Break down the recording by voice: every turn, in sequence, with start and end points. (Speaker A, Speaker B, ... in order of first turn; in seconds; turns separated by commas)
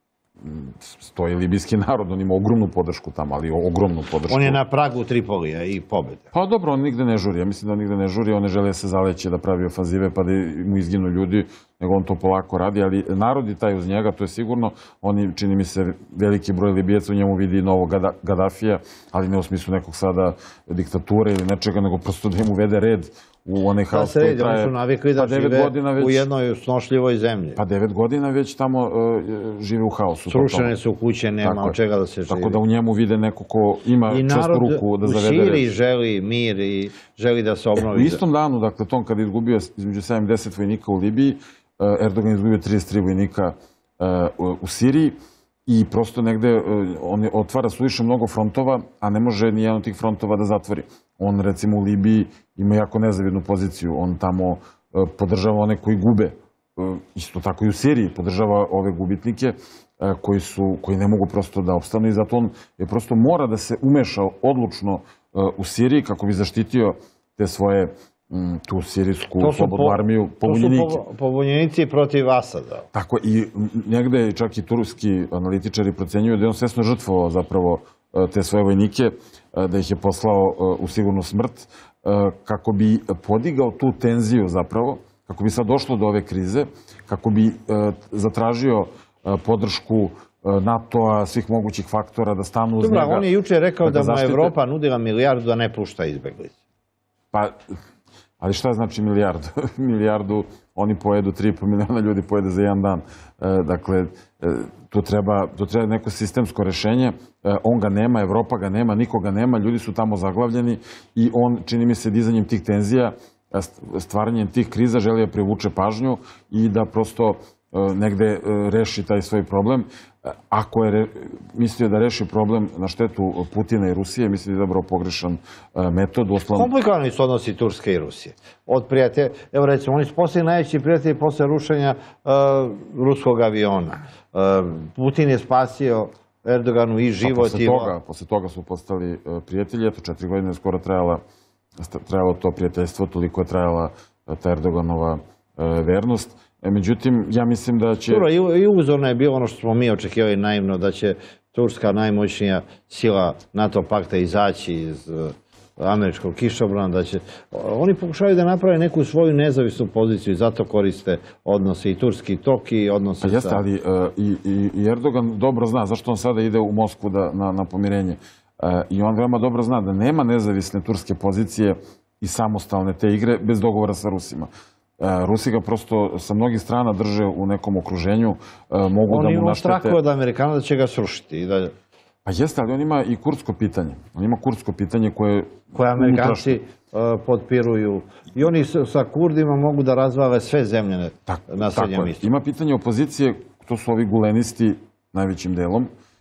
Speaker A: 0.4-4.6, Speaker B: 4.3-6.3, Speaker A: 6.3-26.3, Speaker B: 23.9-27.6, Speaker A: 27.6-30.7, Speaker B: 30.3-32.6, Speaker A: 31.4-31.8, Speaker A: 32.3-35.7, Speaker B: 34.1-38.2, Speaker A: 37.8-45.1, Speaker A: 45.7-71.0, Speaker B: 69.4-72.9, Speaker A: 72.9-93.3, Speaker B: 92.8-96.6, Speaker A: 93.8-94.5, Speaker A: 97.3-97.6, Speaker A: 98.4-126.7, Speaker B: 126.5-137.9, Speaker A: 137.2-141.2, Speaker A: 141.8-148.2, Speaker B: 148.1-163.6, Speaker A: 163.2-180.0, Speaker B: 179.1-181.7, Speaker A: 182.2-186.6, Speaker B: 185.7-192.3, Speaker A: 191.3-195.9